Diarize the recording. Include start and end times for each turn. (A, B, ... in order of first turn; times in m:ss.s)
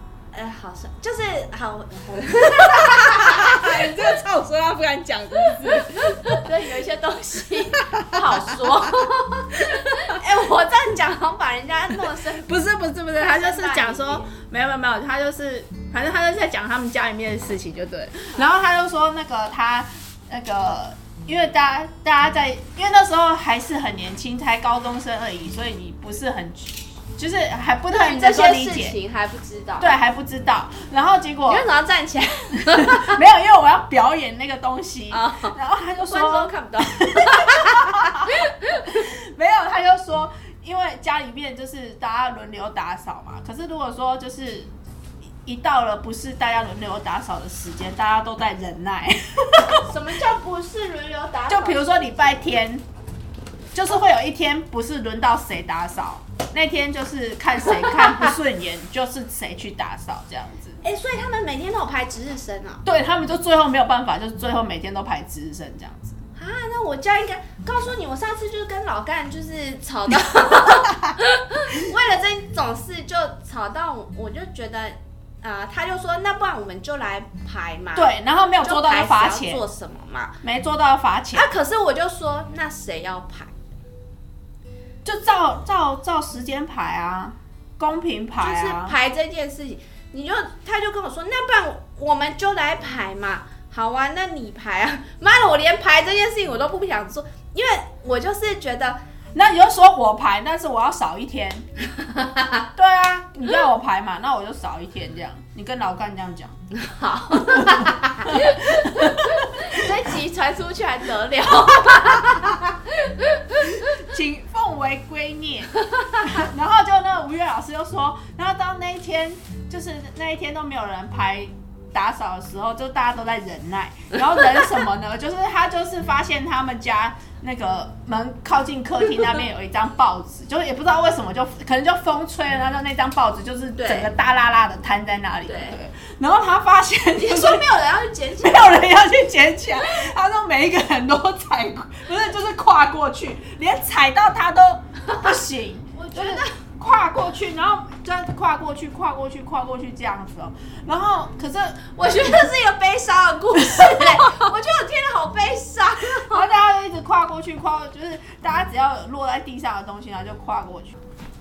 0:00.3-0:03.8 A
0:02.5-0:06.4 B
0:06.1-0:14.3 A
0:08.1-0:08.5 B
0:12.4-0:29.0 B
0:27.9-0:30.0 A
0:29.8-0:31.7 B
0:31.5-0:33.2 A
0:32.7-0:44.7 B
0:35.1-0:38.9 A
0:45.4-0:49.9 B
0:49.9-0:52.4 A
0:51.5-0:52.8 B
0:53.7-1:00.8 B
1:00.8-1:02.8 A
1:02.8-1:06.2 B
1:06.4-1:20.4 A
1:18.0-1:19.6 B
1:20.4-1:21.5 B
1:21.3-1:23.6 A
1:25.0-1:29.0 B
1:28.4-1:39.0 A
1:39.3-1:41.7 B
1:42.1-1:42.5 A
1:42.8-1:46.6 B
1:46.7-1:53.1 A
1:47.6-1:49.8 B
1:53.6-2:17.7 B
2:13.8-2:14.1 A
2:15.5-2:15.8 A
2:17.2-2:18.8 A
2:18.4-2:31.9 B
2:26.0-2:26.6 A
2:31.9-2:36.5 A
2:33.8-2:34.2 B
2:36.2-2:41.0 B